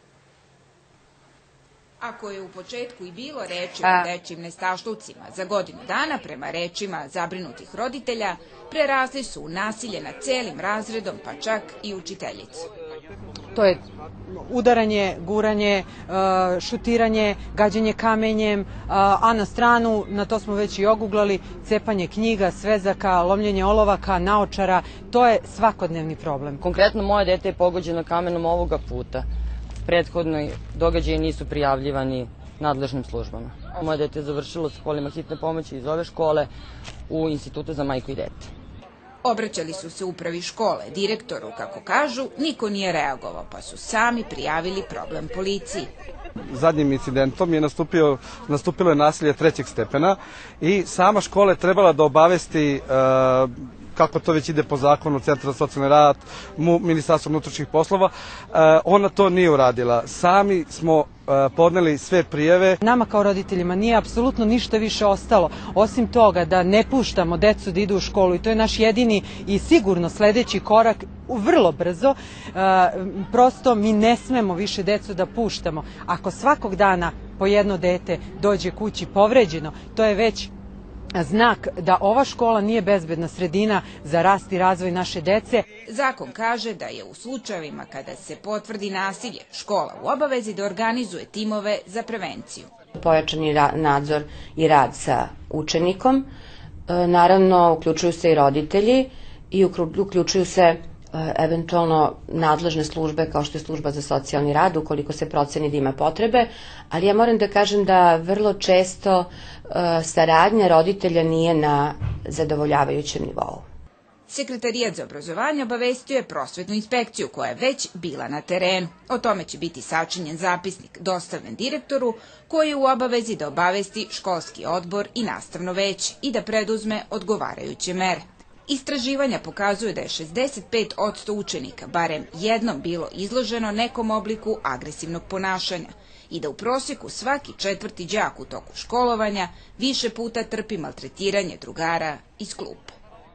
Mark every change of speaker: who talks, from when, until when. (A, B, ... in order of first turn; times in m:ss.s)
0:02.0-0:12.7 A
0:13.5-0:26.6 B
0:26.6-0:29.3 C
0:29.8-0:36.5 C
0:37.1-0:38.5 C
0:39.2-0:45.9 A
0:46.5-1:02.8 D
1:02.8-1:20.5 B
1:21.2-1:25.6 B
1:25.9-1:32.7 A
1:33.0-1:36.3 E
1:36.9-1:53.6 E
1:54.3-2:23.0 A